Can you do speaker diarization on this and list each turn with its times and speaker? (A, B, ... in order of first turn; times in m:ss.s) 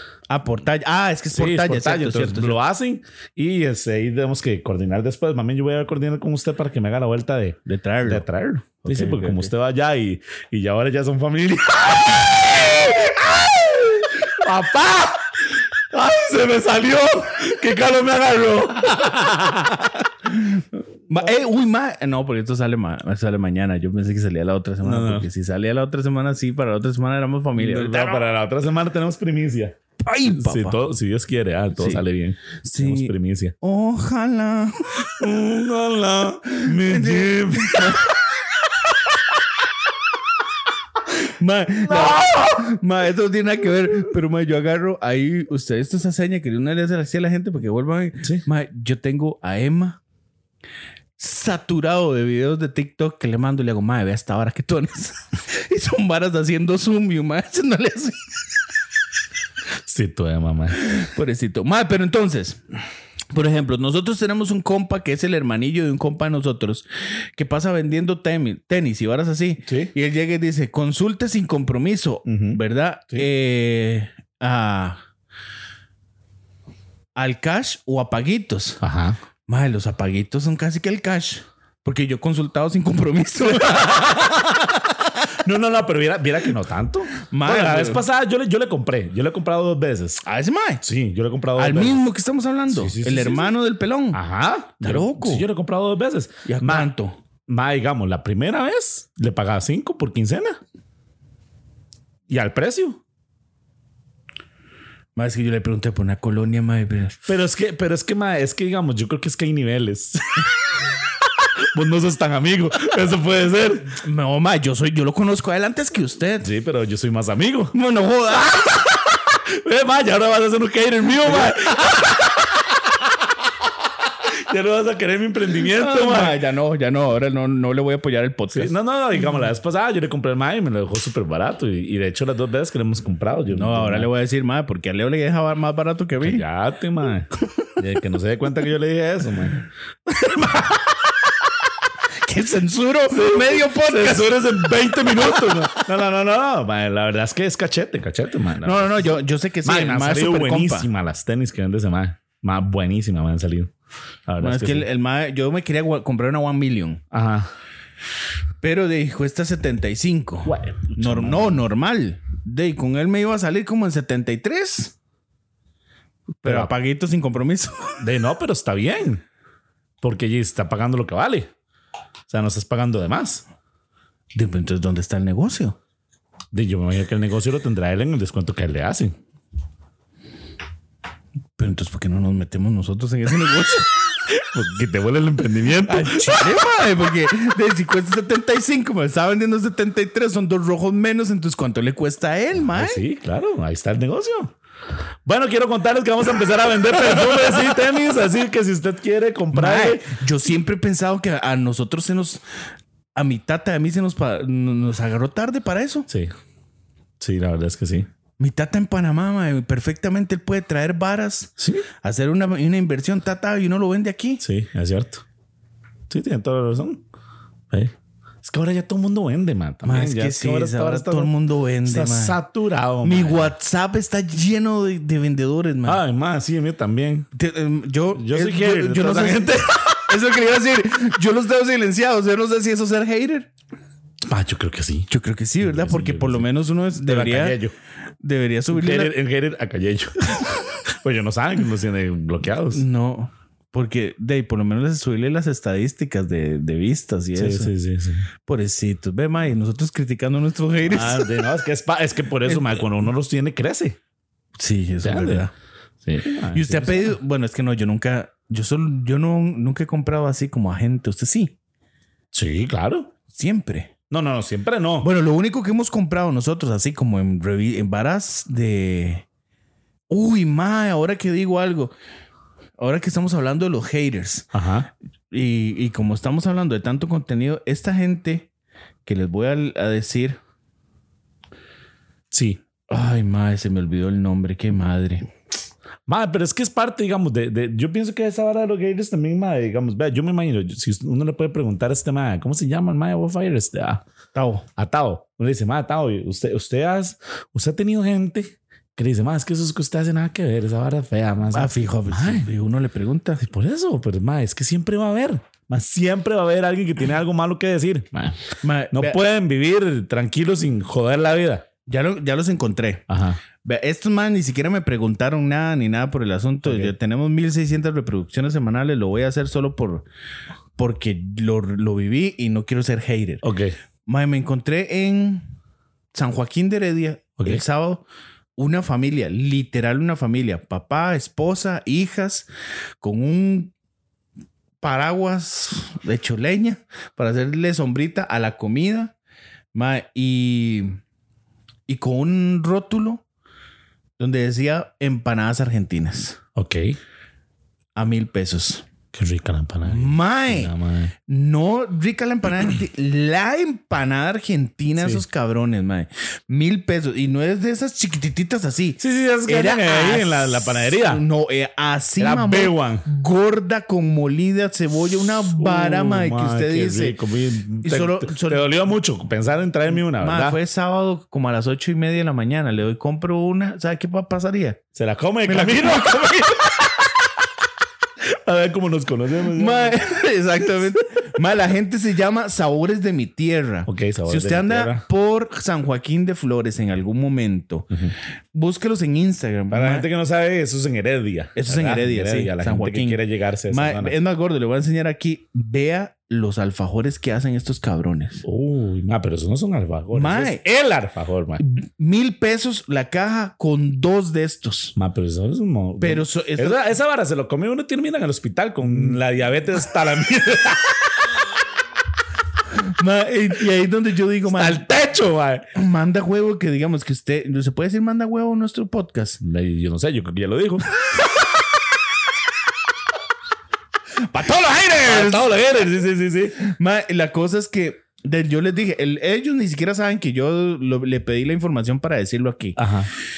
0:00.3-0:02.6 A
0:01.3-0:20.1 B
0:07.7-0:08.2 A
0:08.8-0:09.5 A
0:20.3-0:28.3 A
0:24.8-0:25.3 B
0:27.6-0:33.6 B
0:30.0-0:30.8 A
0:31.8-0:32.0 A
0:32.6-0:35.1 A
0:35.0-0:38.2 B
0:36.5-0:38.1 A
0:41.3-0:50.0 A
0:41.8-0:42.6 B
0:51.2-0:58.4 A
0:59.9-1:00.8 B
1:00.8-1:02.6 A
1:03.3-1:06.8 A
1:07.4-1:15.0 A
1:09.7-1:09.9 B
1:12.3-1:12.6 B
1:17.2-1:18.8 A
1:18.8-1:19.2 B
1:19.5-1:24.3 A
1:23.5-1:30.2 B
1:27.2-1:28.0 A
1:30.2-1:30.8 A
1:30.8-1:32.0 B
1:31.6-1:34.2 A
1:32.7-1:33.5 B
1:34.1-1:36.9 B
1:34.8-1:35.5 A
1:36.4-1:37.2 A
1:37.5-1:40.6 B
1:42.3-1:43.0 B
1:45.2-1:47.2 A
1:47.3-1:50.5 B
1:51.6-1:54.0 B
1:54.0-1:56.5 A
1:56.4-1:57.8 B
1:57.7-1:58.7 A
1:58.4-2:03.3 B
2:01.3-2:01.5 A
2:04.2-2:06.4 B
2:05.7-2:08.7 A
2:08.5-2:14.1 B
2:13.5-2:16.4 A
2:16.2-2:20.9 B
2:22.2-2:24.4 A
2:23.1-2:29.1 B
2:25.0-2:25.8 A
2:28.6-2:30.9 A
2:29.6-2:33.7 B
2:34.3-2:34.9 B
2:34.4-2:37.0 A
2:37.1-2:37.5 B
2:38.6-2:44.9 A
2:40.4-2:41.6 B
2:46.4-2:48.0 A
2:46.4-2:46.7 B
2:48.0-2:49.2 B
2:50.0-2:51.5 B
2:52.3-2:53.4 B
2:54.4-2:55.8 A
2:56.5-2:59.2 B
3:01.6-3:03.9 A
3:04.3-3:06.6 B
3:05.8-3:13.0 A
3:12.6-3:14.5 B
3:15.3-3:20.0 B
3:19.5-3:22.4 A
3:23.2-3:26.1 A
3:27.2-3:28.1 B
3:28.4-3:34.4 A
3:31.6-3:31.9 B
3:34.4-3:35.2 B
3:36.1-3:37.0 B
3:37.7-3:41.3 B
3:39.8-3:42.4 A
3:41.8-3:43.5 B
3:43.0-3:46.0 A
3:45.9-3:47.3 B
3:47.3-3:53.5 A
3:48.1-3:50.0 B
3:54.2-3:55.1 B
3:55.1-3:57.6 A
3:55.6-3:56.5 B
3:57.0-3:57.7 B
3:58.2-3:59.1 A
3:58.7-4:02.8 B
4:02.7-4:07.7 A
4:07.4-4:08.3 B
4:08.5-4:11.3 A
4:10.9-4:14.0 B
4:12.5-4:12.8 A
4:14.6-4:15.5 A
4:15.0-4:15.5 B
4:16.0-4:17.2 B
4:16.5-4:21.5 A
4:22.3-4:23.1 B
4:23.3-4:23.9 A
4:24.1-4:25.1 B
4:25.0-4:29.2 A
4:30.1-4:31.9 A
4:32.8-4:34.5 A
4:34.5-4:34.9 B
4:35.3-4:38.5 A
4:39.1-4:40.4 A
4:42.3-4:42.6 B
4:42.9-4:45.3 A
4:46.1-4:54.0 B
4:54.3-4:54.6 A
4:54.8-5:02.5 B
5:01.5-5:03.4 A
5:03.4-5:08.4 B
5:08.6-5:09.2 A
5:08.9-5:11.7 B
5:11.9-5:13.1 A
5:13.1-5:13.4 B
5:13.6-5:20.0 A
5:16.6-5:16.9 B
5:20.8-5:23.4 A
5:23.4-5:23.8 B
5:24.1-5:25.5 A
5:26.1-5:28.0 A
5:27.4-5:27.6 B
5:28.6-5:32.5 A
5:33.0-5:33.7 A
5:34.8-5:39.1 A
5:39.7-5:41.0 A
5:41.9-5:43.2 A
5:44.2-5:46.4 A
5:46.6-5:47.0 B
5:48.0-5:48.9 A
5:49.1-5:51.1 B
5:49.9-5:50.7 A
5:51.3-6:07.2 A
5:55.0-5:55.2 B
5:59.0-6:01.2 B
6:02.2-6:03.1 B
6:05.3-6:10.6 B
6:07.8-6:08.7 A
6:09.9-6:14.8 A
6:15.0-6:17.4 B
6:15.5-6:16.3 A
6:18.2-6:20.0 B
6:19.5-6:27.9 A
6:23.9-6:25.0 B
6:28.5-6:30.1 A
6:29.7-6:34.2 B
6:31.6-6:38.4 A
6:38.4-6:41.6 B
6:40.1-6:40.6 A
6:41.6-6:45.0 A
6:45.0-6:51.3 B
6:46.0-6:46.8 A
6:52.9-6:54.9 A
6:54.5-6:55.7 B
6:55.7-6:59.4 A
6:59.4-7:00.9 B
7:04.2-7:05.5 A
7:05.0-7:06.6 B
7:06.6-7:12.8 A
7:12.8-7:13.1 B